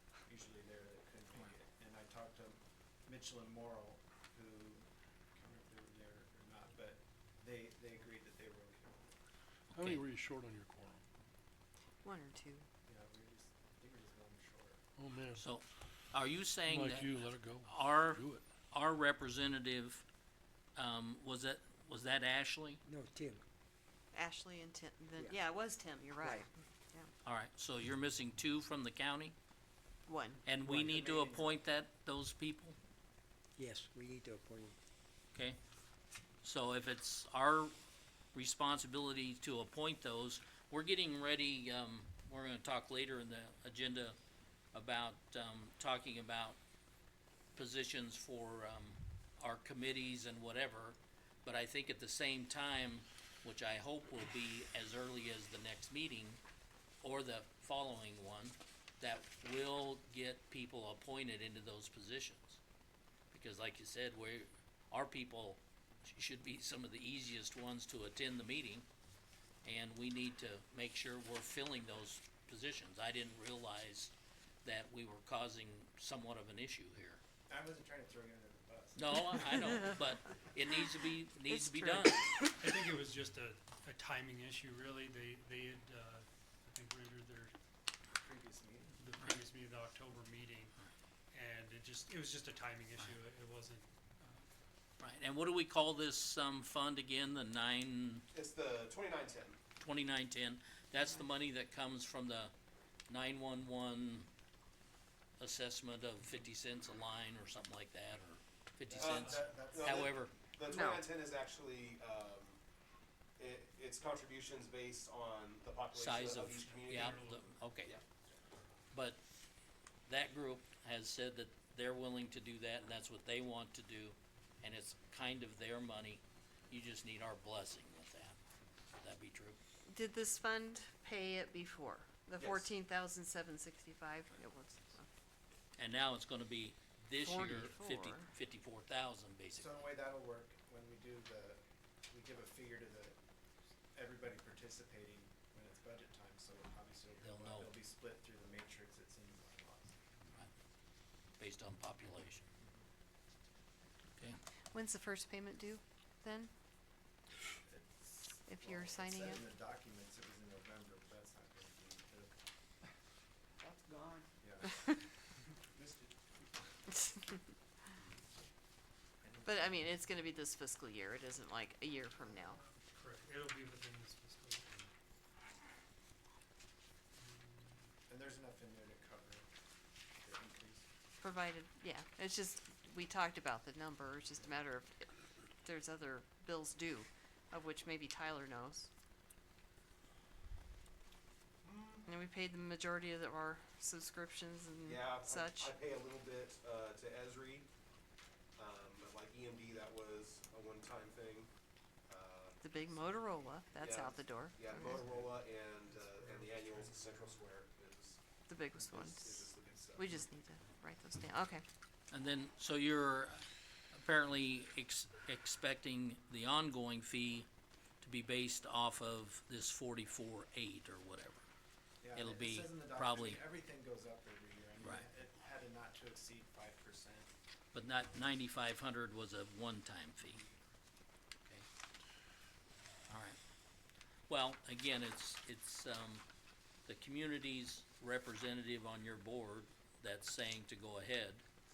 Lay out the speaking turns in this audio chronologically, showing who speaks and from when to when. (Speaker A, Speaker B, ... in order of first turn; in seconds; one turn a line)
Speaker A: 0.2-9.2
Speaker B: 9.7-11.0
Speaker C: 9.7-10.0
Speaker D: 12.0-12.7
Speaker A: 12.9-14.8
Speaker B: 15.0-15.4
Speaker C: 15.4-20.0
Speaker B: 16.6-18.4
Speaker C: 20.8-22.8
Speaker E: 22.8-23.4
Speaker D: 24.1-27.1
Speaker E: 26.2-26.5
Speaker C: 27.2-29.3
Speaker D: 30.1-30.4
Speaker C: 30.4-32.8
Speaker E: 30.6-31.0
Speaker A: 30.7-31.6
Speaker E: 33.6-34.8
Speaker C: 36.4-37.7
Speaker C: 38.3-44.1
Speaker C: 44.7-46.6
Speaker C: 47.5-56.4
Speaker C: 57.0-62.6
Speaker C: 63.3-68.8
Speaker C: 69.6-74.1
Speaker C: 74.6-77.2
Speaker A: 77.5-79.8
Speaker C: 78.9-82.2
Speaker D: 81.5-82.6
Speaker F: 82.6-87.5
Speaker A: 88.2-89.0
Speaker F: 89.0-90.8
Speaker F: 91.3-94.5
Speaker C: 95.0-98.2
Speaker G: 98.3-99.6
Speaker C: 99.8-102.5
Speaker C: 103.1-104.3
Speaker C: 105.4-110.3
Speaker A: 108.9-110.1
Speaker G: 109.0-112.6
Speaker F: 109.2-109.5
Speaker D: 110.7-111.0
Speaker G: 113.4-117.2
Speaker C: 115.9-117.9
Speaker F: 116.4-117.6
Speaker C: 118.9-119.2
Speaker C: 120.1-128.3
Speaker C: 129.0-129.6
Speaker D: 129.9-135.1
Speaker C: 135.8-139.7
Speaker D: 137.2-138.3
Speaker A: 139.5-143.2
Speaker A: 143.9-150.0
Speaker C: 147.2-147.7
Speaker C: 151.4-152.4
Speaker D: 154.7-156.5
Speaker A: 157.7-162.4
Speaker D: 158.5-159.4
Speaker A: 164.4-164.9
Speaker A: 165.7-166.6
Speaker A: 169.2-169.8
Speaker D: 169.4-172.6
Speaker A: 172.2-172.6
Speaker F: 172.8-174.7
Speaker F: 177.2-177.8
Speaker A: 178.1-179.5
Speaker A: 180.2-180.9
Speaker D: 181.2-185.1
Speaker D: 185.6-188.9
Speaker G: 191.6-192.1
Speaker D: 192.1-195.7
Speaker G: 194.8-197.7
Speaker G: 198.6-201.5
Speaker G: 202.1-202.6
Speaker D: 202.6-205.1
Speaker A: 202.9-203.6
Speaker G: 203.7-208.2
Speaker F: 204.9-205.3
Speaker F: 205.9-207.4
Speaker D: 208.5-211.6
Speaker G: 208.8-210.1
Speaker C: 212.1-217.5
Speaker C: 218.0-221.4
Speaker A: 222.0-227.3
Speaker C: 222.1-223.4
Speaker C: 227.7-230.4
Speaker C: 233.1-233.4
Speaker C: 234.3-236.2
Speaker C: 236.8-241.4